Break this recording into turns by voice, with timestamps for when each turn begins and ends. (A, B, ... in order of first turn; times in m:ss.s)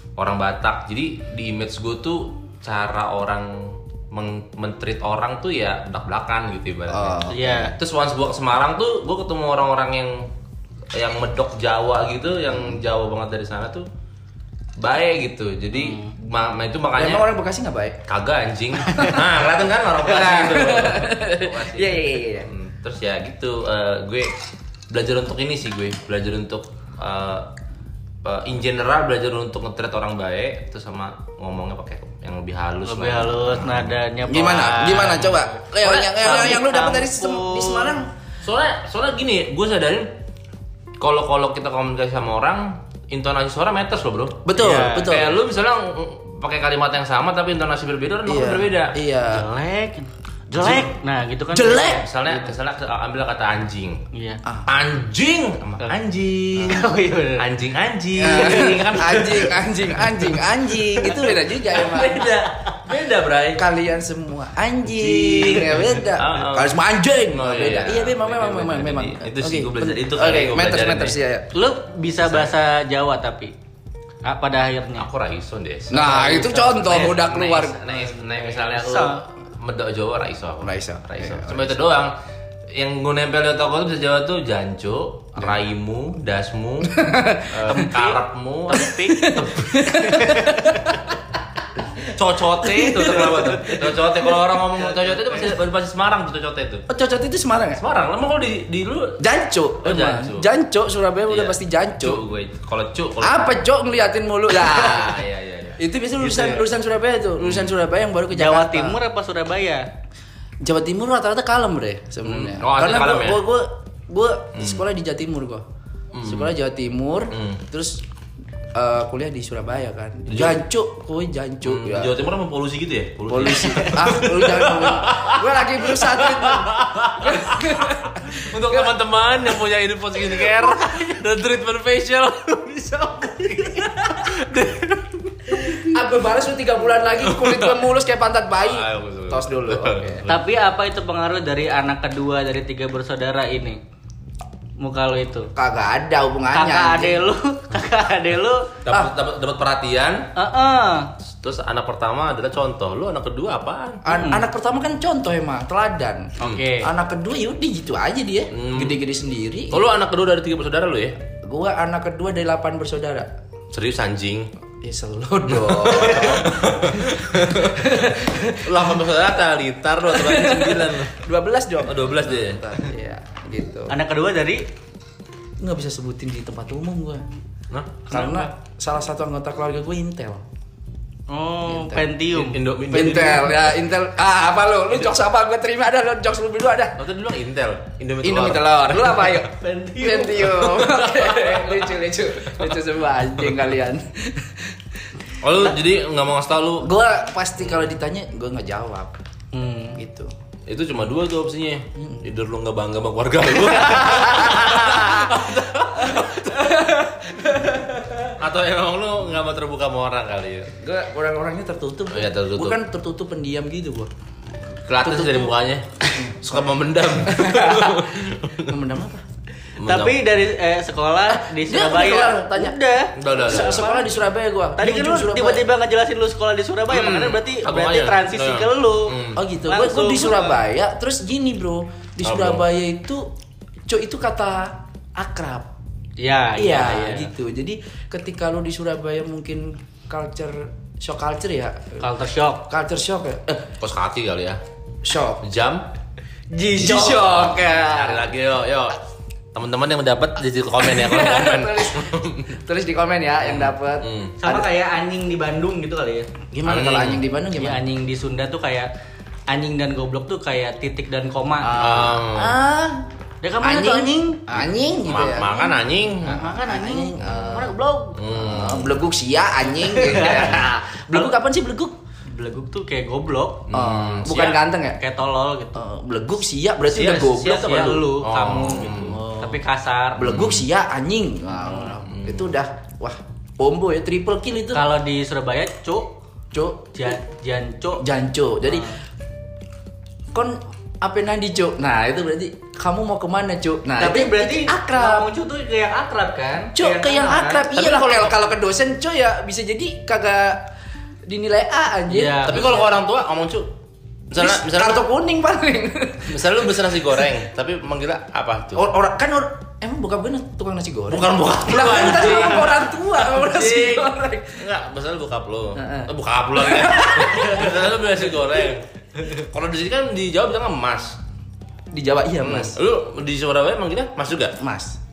0:00.2-0:10.2 A
0:06.9-0:07.4 B
0:07.3-0:07.7 C
0:10.9-0:13.8 A
0:14.8-0:17.3 A
0:15.8-0:16.1 C
0:17.0-0:18.0 B
0:18.1-0:24.3 A
0:18.9-0:19.2 B
0:20.0-0:22.5 B
0:24.9-0:27.5 A
0:28.2-0:34.0 A
0:32.8-0:37.9 C
0:34.2-0:38.1 B
0:34.9-0:36.6 A
0:38.4-0:40.1 A
0:41.0-0:49.0 A
0:44.4-0:45.3 B
0:44.5-0:45.2 C
0:48.2-0:49.4 B
0:49.3-0:52.5 C
0:50.5-0:51.0 A
0:51.5-0:52.0 B
0:51.8-0:54.0 A
0:54.1-0:54.4 C
0:54.7-0:59.6 A
0:56.6-0:57.4 C
0:58.2-1:02.3 B
0:58.2-0:59.0 C
1:01.0-1:01.3 C
1:01.1-1:03.6 A
1:03.6-1:11.5 B
1:04.8-1:11.2 A
1:11.5-1:13.5 C
1:12.2-1:12.5 A
1:14.2-1:15.1 C
1:15.0-1:16.0 A
1:15.9-1:17.8 B
1:15.9-1:17.1 C
1:16.8-1:22.1 A
1:18.6-1:19.2 C
1:20.6-1:21.8 B
1:22.7-1:30.3 A
1:26.8-1:28.1 B
1:28.7-1:31.1 B
1:29.9-1:31.0 C
1:32.0-1:36.8 A
1:32.6-1:34.1 B
1:34.8-1:35.5 C
1:36.9-1:37.8 B
1:37.8-1:39.2 A
1:39.2-1:42.2 B
1:39.8-1:40.5 A
1:41.3-1:43.5 A
1:43.2-1:45.2 B
1:44.6-1:45.8 A
1:45.8-1:49.0 B
1:46.2-1:46.6 C
1:47.4-1:47.8 A
1:48.3-1:49.8 C
1:50.6-1:55.6 B
1:52.2-1:53.4 A
1:54.6-1:54.8 A
1:56.1-1:56.5 A
1:56.2-1:58.0 B
1:57.3-1:57.6 A
1:58.7-2:02.2 B
2:00.3-2:00.6 A
2:01.6-2:15.1 A
2:03.3-2:08.9 B
2:10.6-2:11.1 C
2:13.2-2:14.7 C
2:15.5-2:15.8 C
2:15.9-2:20.2 B
2:17.2-2:17.8 A
2:18.6-2:20.4 A
2:20.3-2:23.8 C
2:24.8-2:25.5 C
2:25.5-2:27.2 B
2:26.5-2:28.7 C
2:28.8-2:30.3 A
2:30.4-2:31.1 C
2:31.2-2:34.2 A
2:34.0-2:39.8 B
2:34.1-2:34.5 C
2:36.4-2:36.9 C
2:36.4-2:36.7 A
2:38.5-2:39.0 A
2:39.7-2:41.2 A
2:41.4-2:43.3 B
2:43.7-2:44.5 A
2:44.8-2:49.0 B
2:45.5-2:51.2 A
2:50.1-2:53.9 B
2:51.8-2:52.9 A
2:53.9-2:54.6 C
2:55.6-2:57.2 B
2:57.7-2:58.5 A
2:58.1-3:00.4 B
3:01.3-3:02.6 C
3:01.6-3:02.1 B
3:02.3-3:03.8 A
3:02.9-3:07.0 B
3:07.0-3:09.4 A
3:08.2-3:14.7 B
3:09.6-3:10.6 C
3:10.0-3:11.8 A
3:15.4-3:16.9 A
3:16.8-3:19.1 B
3:17.6-3:17.9 A
3:19.5-3:20.0 C
3:19.9-3:20.3 B
3:20.7-3:26.6 A
3:24.4-3:25.3 B
3:24.5-3:25.2 C
3:26.0-3:28.3 B
3:28.3-3:30.7 A
3:30.8-3:34.1 B
3:32.1-3:32.8 A
3:34.8-3:38.7 A
3:35.0-3:35.5 B
3:36.1-3:36.5 B
3:37.2-3:39.2 B
3:39.8-3:40.2 A
3:39.8-3:44.1 C
3:41.3-3:42.8 B
3:43.2-3:43.9 A
3:43.4-3:45.6 B
3:44.8-3:49.1 C
3:46.9-3:49.4 A
3:49.4-3:53.3 B
3:49.7-3:50.6 C
3:52.2-3:52.6 A
3:53.9-3:55.7 B
3:56.2-3:57.3 C
3:56.5-4:02.0 B
4:02.0-4:02.7 C
4:02.7-4:03.7 B
4:03.8-4:04.6 A
4:05.0-4:05.4 B
4:05.4-4:05.9 A
4:06.5-4:07.3 C
4:06.7-4:08.3 B
4:06.8-4:09.0 A
4:09.5-4:12.6 A
4:10.8-4:14.7 B
4:13.4-4:14.4 A
4:14.4-4:16.3 C
4:16.5-4:17.8 B
4:16.6-4:17.2 A
4:17.6-4:18.9 C
4:19.5-4:22.1 C
4:21.6-4:23.0 B
4:21.8-4:22.6 A
4:23.4-4:24.4 C
4:23.6-4:27.8 B
4:25.0-4:26.5 A
4:26.2-4:28.2 C
4:28.1-4:29.0 A
4:28.3-4:31.9 B
4:29.8-4:30.6 C
4:32.3-4:33.7 C
4:33.7-4:34.6 A
4:33.7-4:35.0 B
4:34.3-4:35.8 C
4:35.7-4:38.0 B
4:36.9-4:39.2 A
4:37.0-4:40.3 C
4:38.8-4:39.6 B
4:40.2-4:44.8 B
4:40.2-4:40.7 A
4:42.0-4:42.5 A
4:44.7-4:46.2 C
4:46.5-4:47.1 B
4:46.9-4:48.0 C
4:48.0-4:48.9 B
4:50.3-4:55.3 B
4:54.0-4:57.7 C
4:56.7-5:00.7 B
4:57.7-4:58.4 A
5:01.3-5:02.9 B
5:02.1-5:02.8 C
5:02.4-5:03.7 A
5:04.3-5:05.0 A
5:04.3-5:06.9 B
5:06.3-5:08.9 A
5:08.7-5:14.6 B
5:11.1-5:21.2 A
5:15.8-5:17.8 B
5:21.9-5:22.8 B
5:22.4-5:24.6 A
5:24.6-5:25.0 B